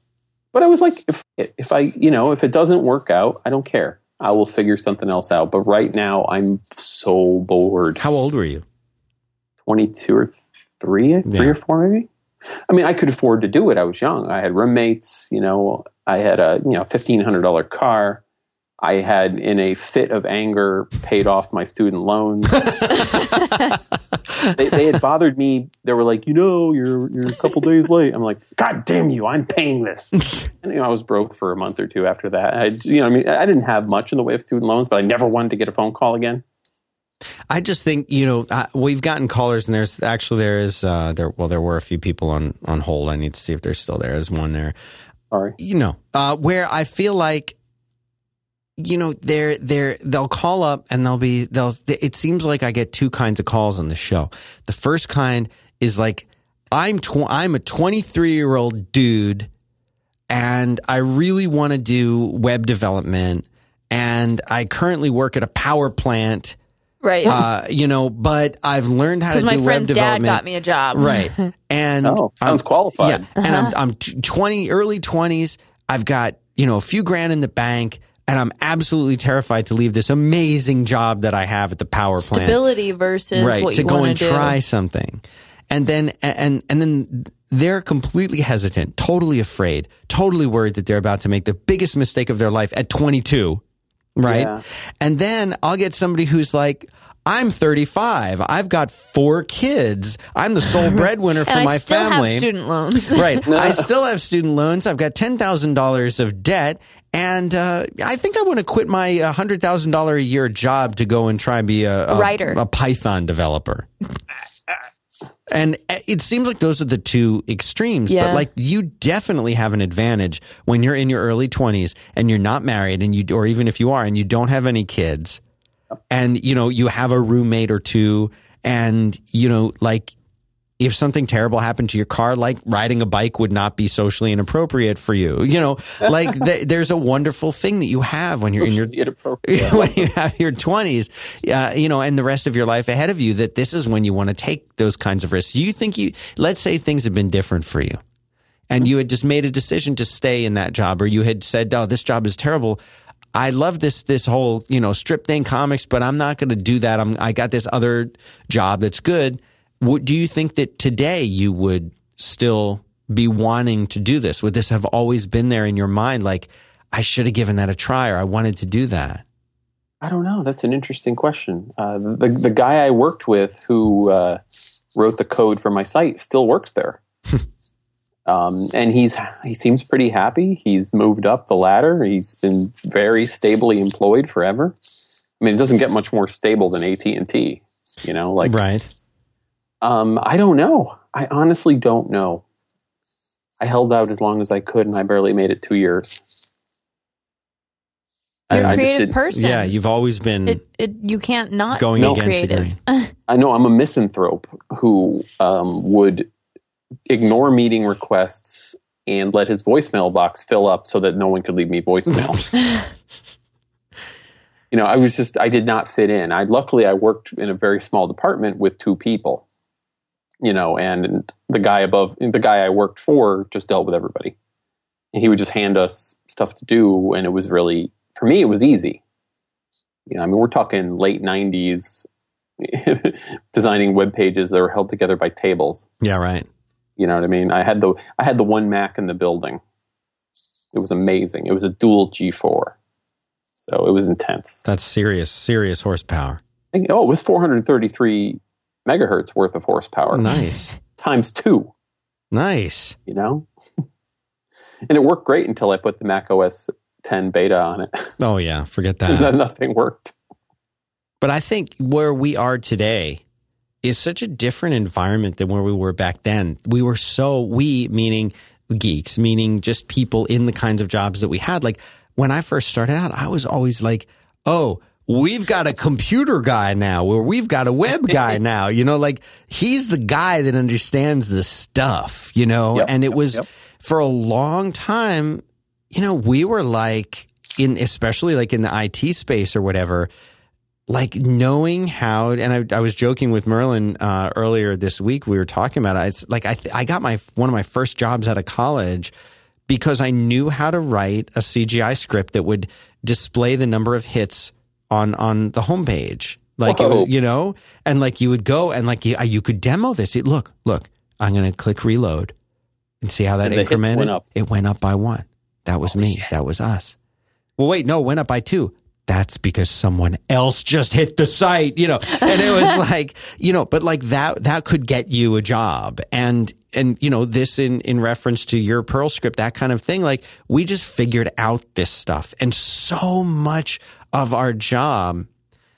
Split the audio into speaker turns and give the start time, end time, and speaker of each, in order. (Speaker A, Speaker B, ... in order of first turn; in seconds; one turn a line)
Speaker A: 0.5-8.1
Speaker B: 8.0-8.7
Speaker A: 9.7-12.1
Speaker B: 11.3-11.6
Speaker A: 12.7-18.2
Speaker A: 18.8-23.2
Speaker B: 22.6-23.8
Speaker B: 24.3-24.8
Speaker A: 24.5-36.4
Speaker B: 37.5-44.7
Speaker A: 45.3-45.6
Speaker B: 45.6-47.6
Speaker B: 48.8-59.5
Speaker B: 60.3-66.6
Speaker C: 67.0-67.4
Speaker B: 67.2-82.6
Speaker C: 69.3-71.5
Speaker A: 72.0-73.3
Speaker C: 73.4-73.7
Speaker C: 82.2-84.6
Speaker B: 83.3-93.6
Speaker B: 94.2-102.5
Speaker A: 94.2-94.6
Speaker C: 101.5-103.4
Speaker B: 103.1-113.9
Speaker A: 103.4-103.9
Speaker C: 112.1-112.6
Speaker B: 115.5-125.4
Speaker C: 118.1-118.5
Speaker B: 126.1-130.1
Speaker B: 130.8-138.9
Speaker A: 138.6-140.1
Speaker B: 139.4-148.0
Speaker B: 148.7-152.8
Speaker B: 153.3-169.2
Speaker A: 170.0-174.4
Speaker A: 174.9-177.0
Speaker A: 178.3-184.8
Speaker A: 185.4-188.6
Speaker B: 188.4-188.9
Speaker A: 189.8-192.4
Speaker A: 193.6-196.2
Speaker B: 198.5-200.6
Speaker A: 198.5-199.1
Speaker C: 198.5-199.7
Speaker C: 200.5-203.1
Speaker B: 201.7-202.8
Speaker A: 202.0-202.2
Speaker A: 203.3-206.3
Speaker A: 207.1-212.5
Speaker A: 214.7-219.4
Speaker A: 220.4-224.4
Speaker A: 225.1-229.0
Speaker A: 230.1-232.1
Speaker A: 232.6-235.8
Speaker B: 236.0-236.5
Speaker A: 237.0-239.6
Speaker A: 240.7-242.8
Speaker A: 243.6-244.6
Speaker B: 244.7-246.4
Speaker A: 246.7-250.3
Speaker B: 250.1-250.8
Speaker A: 251.0-251.7
Speaker B: 252.3-253.0
Speaker A: 253.1-253.5
Speaker A: 254.9-258.1
Speaker B: 258.2-259.3
Speaker A: 259.1-260.1
Speaker B: 261.2-263.2
Speaker B: 263.8-290.1
Speaker A: 282.7-283.5
Speaker B: 290.9-299.1
Speaker B: 299.7-312.3
Speaker A: 306.6-307.1
Speaker B: 313.0-317.0
Speaker A: 313.4-314.2
Speaker A: 315.9-316.3
Speaker B: 317.6-335.3